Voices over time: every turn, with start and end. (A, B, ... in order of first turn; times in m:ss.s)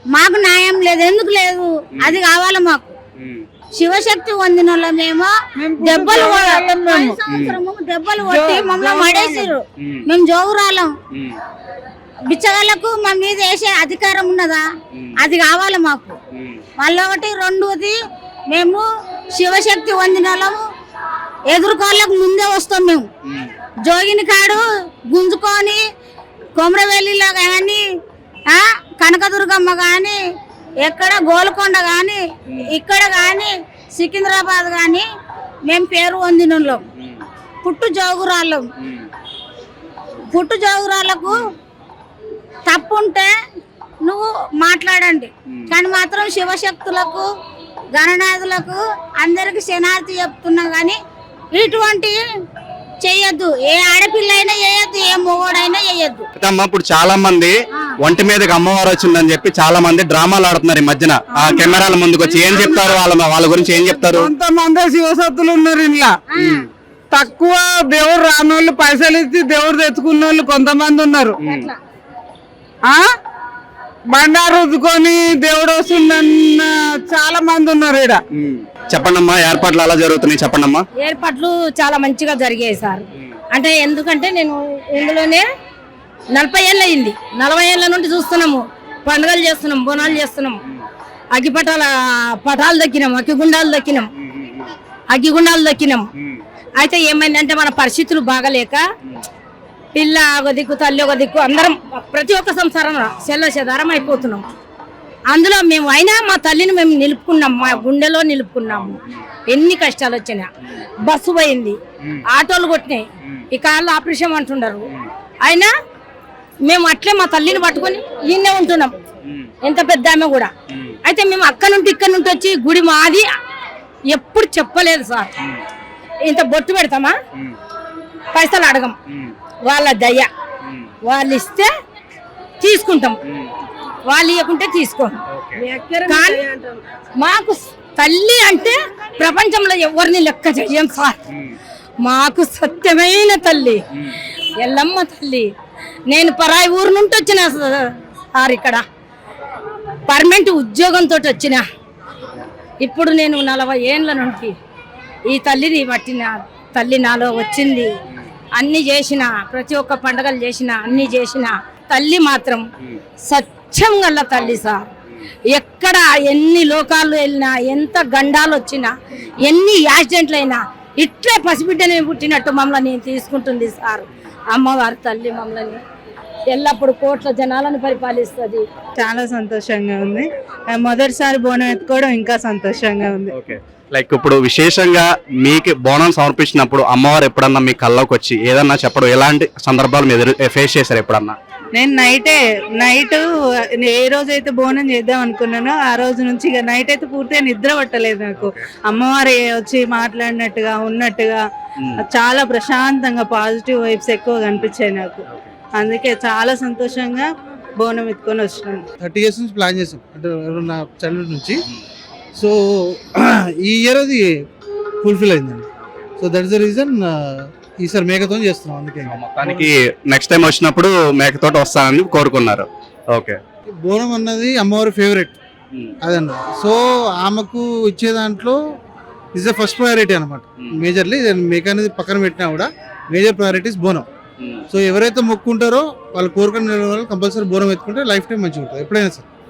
0:00.1-0:03.0 A
0:01.9-0:02.2 B
0:03.2-0:03.4 B
0:03.7-0:10.9 A
0:05.6-0:07.2 C
0:07.3-0:07.6 B
0:08.2-0:09.5 C
0:11.1-0:11.4 B
0:12.2-0:14.6 A
0:15.2-0:16.2 A
0:16.3-0:16.6 B
0:16.8-0:17.9 A
0:18.5-0:20.6 A
0:21.5-0:23.1 A
0:23.9-0:25.8 A
0:26.6-0:27.8 A
0:28.5-0:30.2 A
0:30.8-0:35.0 A
0:35.6-0:36.8 A
0:37.0-0:37.2 B
0:37.6-0:38.7 A
0:38.8-0:39.1 B
0:40.3-0:41.5 A
0:42.7-0:43.3 A
0:44.0-0:47.3 A
0:47.9-0:51.0 A
0:51.5-0:52.2 A
0:53.0-0:56.3 A
0:56.4-1:04.3 B
1:01.4-1:01.8 C
1:04.0-1:06.2 C
1:06.3-1:06.7 A
1:06.4-1:06.6 B
1:07.1-1:11.4 C
1:14.1-1:18.2 C
1:18.4-1:20.8 B
1:21.0-1:25.4 D
1:26.3-1:30.6 D
1:31.3-1:34.1 D
1:34.3-1:34.7 B
1:35.1-1:36.1 D
1:36.8-1:38.8 D
1:39.9-1:44.4 D
1:45.3-1:50.5 D
1:51.0-1:54.8 D
1:55.4-1:55.7 D
1:56.6-1:59.0 D
1:59.6-2:00.5 D
2:00.7-2:01.0 B
2:01.0-2:03.3 D
2:04.1-2:05.3 D
2:06.2-2:07.2 D
2:08.3-2:09.0 D
2:09.6-2:10.3 D
2:11.0-2:11.7 D
2:12.6-2:13.2 D
2:14.0-2:15.2 D
2:15.3-2:15.6 B
2:16.1-2:16.4 D
2:17.2-2:21.2 D
2:22.0-2:23.8 D
2:24.6-2:25.5 D
2:26.1-2:28.8 D
2:30.0-2:31.6 D
2:32.8-2:34.5 D
2:35.3-2:37.9 D
2:38.5-2:42.6 D
2:43.2-2:44.8 D
2:45.5-2:48.9 D
2:49.4-2:55.8 D
2:56.5-2:58.6 D
2:59.0-3:03.3 E
3:03.3-3:11.4 B
3:11.8-3:21.4 E
3:18.4-3:18.6 B
3:22.1-3:25.2 E
3:25.8-3:27.2 E
3:27.8-3:28.8 E
3:29.0-3:31.6 F
3:32.4-3:34.4 F
3:35.0-3:35.7 F
3:36.2-3:39.7 F
3:39.1-3:43.4 B
3:43.7-3:45.4 F
3:46.0-3:48.6 F
3:49.3-3:54.0 F
3:54.4-3:54.6 B
3:54.7-3:59.2 F